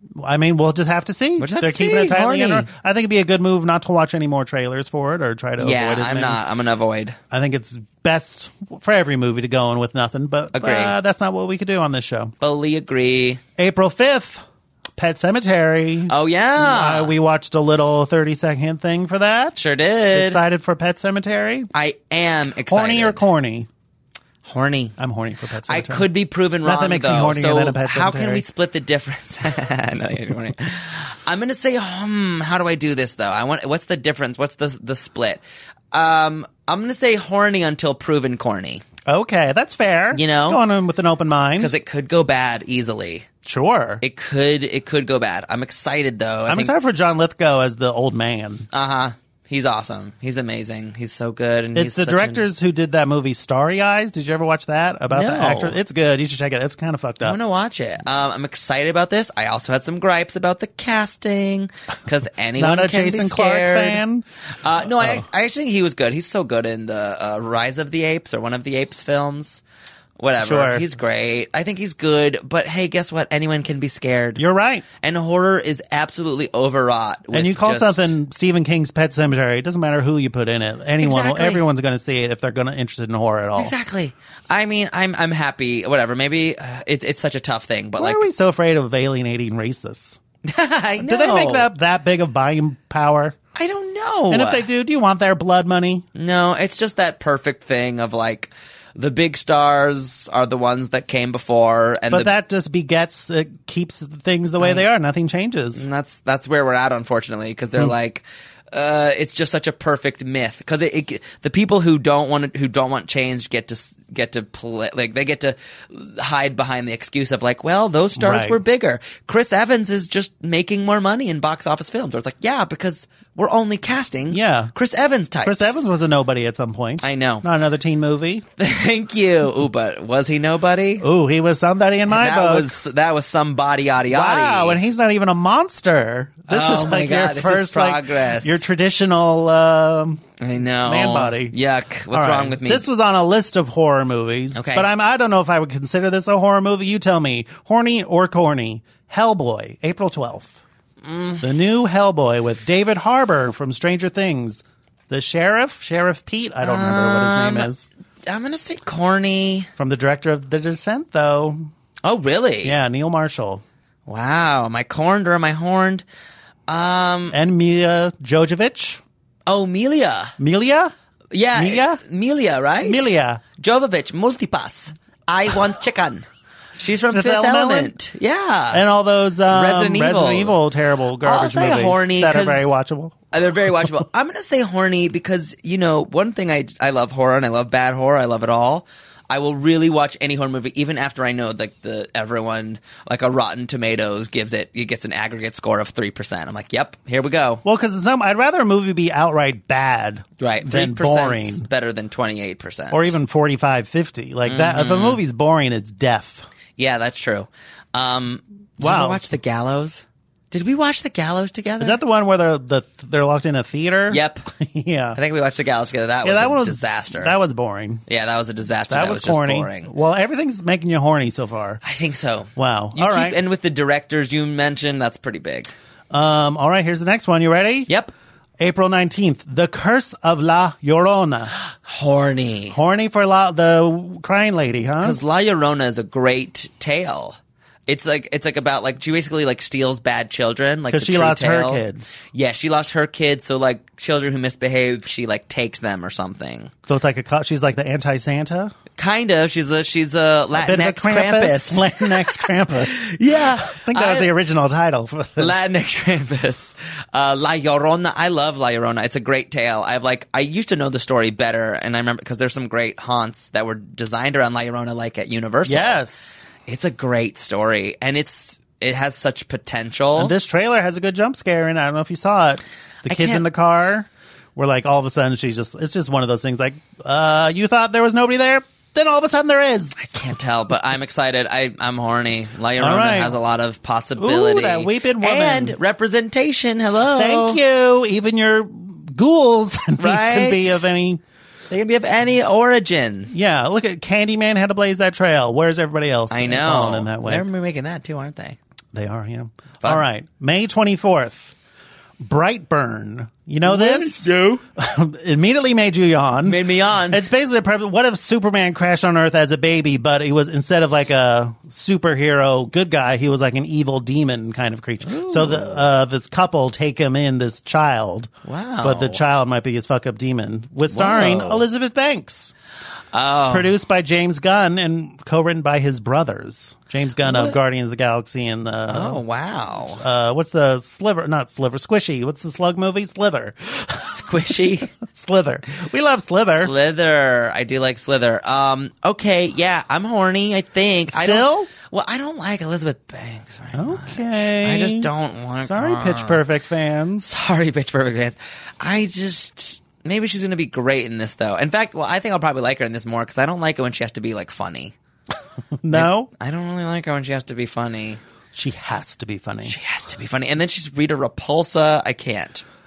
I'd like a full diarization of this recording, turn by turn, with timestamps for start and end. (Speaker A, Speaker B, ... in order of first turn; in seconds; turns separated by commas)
Speaker A: 0.2-6.4, Speaker B: 1.4-2.7, Speaker B: 5.6-7.2, Speaker A: 7.3-12.3, Speaker B: 10.5-10.9, Speaker B: 12.4-13.4, Speaker A: 13.6-14.4, Speaker A: 14.9-19.6, Speaker B: 16.1-17.1, Speaker B: 19.6-20.4, Speaker A: 20.1-21.7, Speaker B: 21.7-23.2, Speaker A: 22.7-23.7, Speaker B: 24.4-24.9, Speaker A: 25.0-26.1, Speaker B: 25.7-38.8, Speaker A: 26.6-28.4, Speaker A: 39.0-41.7, Speaker B: 40.1-40.6, Speaker B: 41.6-43.3, Speaker A: 43.4-44.0, Speaker B: 44.0-46.7, Speaker A: 46.5-48.7, Speaker B: 48.7-52.4, Speaker A: 51.7-57.4, Speaker B: 55.1-55.8, Speaker B: 57.2-64.0, Speaker A: 62.6-64.2, Speaker B: 64.6-69.6, Speaker B: 70.2-74.4, Speaker A: 70.4-70.8, Speaker A: 74.4-74.8, Speaker B: 75.0-78.1, Speaker A: 77.3-83.7, Speaker B: 81.0-81.6, Speaker B: 83.5-88.2, Speaker A: 88.0-90.2, Speaker B: 90.4-91.7, Speaker A: 91.0-93.4, Speaker B: 93.5-94.6, Speaker A: 94.3-96.0, Speaker B: 96.1-102.3, Speaker A: 102.1-105.8, Speaker B: 105.7-125.8, Speaker A: 118.2-118.6, Speaker A: 124.3-124.7, Speaker A: 125.4-128.4, Speaker B: 127.0-127.4, Speaker B: 128.6-131.1, Speaker A: 131.0-132.8, Speaker B: 132.1-134.8, Speaker A: 134.1-140.2, Speaker B: 136.5-138.6, Speaker B: 140.4-142.8, Speaker A: 140.8-141.5, Speaker A: 142.1-150.6, Speaker B: 144.5-144.9, Speaker B: 151.0-151.4, Speaker A: 151.4-157.8, Speaker B: 156.6-157.7, Speaker B: 158.3-159.7, Speaker A: 159.8-161.7, Speaker B: 162.0-162.8, Speaker A: 162.6-163.6, Speaker B: 164.1-166.0, Speaker B: 166.7-167.3, Speaker A: 167.3-169.0, Speaker B: 169.5-170.3, Speaker A: 170.4-170.9, Speaker B: 171.3-176.2, Speaker A: 171.5-172.0, Speaker A: 172.8-173.4, Speaker B: 176.8-178.8, Speaker A: 177.1-177.9, Speaker A: 178.7-183.2, Speaker B: 179.5-180.6, Speaker B: 181.2-182.7, Speaker B: 183.3-197.6, Speaker A: 197.6-201.6, Speaker B: 200.4-203.1, Speaker A: 202.9-206.4, Speaker B: 204.4-205.2, Speaker B: 206.8-212.0, Speaker A: 208.8-209.2, Speaker A: 211.8-215.2, Speaker B: 214.1-214.4, Speaker B: 215.1-217.3, Speaker A: 216.2-218.0, Speaker B: 218.1-219.9, Speaker A: 218.9-221.8, Speaker B: 221.8-225.7, Speaker A: 222.6-223.4, Speaker A: 226.1-227.9, Speaker A: 228.6-231.5, Speaker B: 231.8-232.8, Speaker A: 232.7-235.2, Speaker B: 235.0-241.8, Speaker A: 240.9-242.2, Speaker B: 242.3-246.7, Speaker A: 246.9-248.7, Speaker B: 249.0-254.3, Speaker A: 250.5-255.6, Speaker B: 255.4-266.0, Speaker A: 265.6-266.4, Speaker B: 266.7-270.3, Speaker A: 270.1-279.9, Speaker B: 273.1-273.4, Speaker B: 279.9-287.6, Speaker A: 282.8-283.4, Speaker A: 284.2-285.8, Speaker A: 287.1-291.2, Speaker B: 290.0-290.8, Speaker B: 291.7-293.3, Speaker A: 293.3-297.5, Speaker B: 296.3-298.6, Speaker A: 298.9-301.5, Speaker A: 302.2-318.3, Speaker B: 303.6-304.6, Speaker B: 306.4-307.2, Speaker B: 315.0-315.8, Speaker B: 318.4-319.2, Speaker A: 318.8-322.5, Speaker B: 320.9-321.6, Speaker B: 323.1-323.7, Speaker A: 323.5-329.2, Speaker B: 327.2-327.6, Speaker B: 328.9-330.0, Speaker A: 329.9-336.7, Speaker B: 334.0-334.9, Speaker B: 336.4-346.4, Speaker A: 341.1-341.7, Speaker A: 343.7-345.1, Speaker A: 345.6-347.3, Speaker B: 347.2-354.9, Speaker A: 355.8-356.3, Speaker B: 355.9-358.2, Speaker A: 358.5-359.7, Speaker B: 359.6-362.6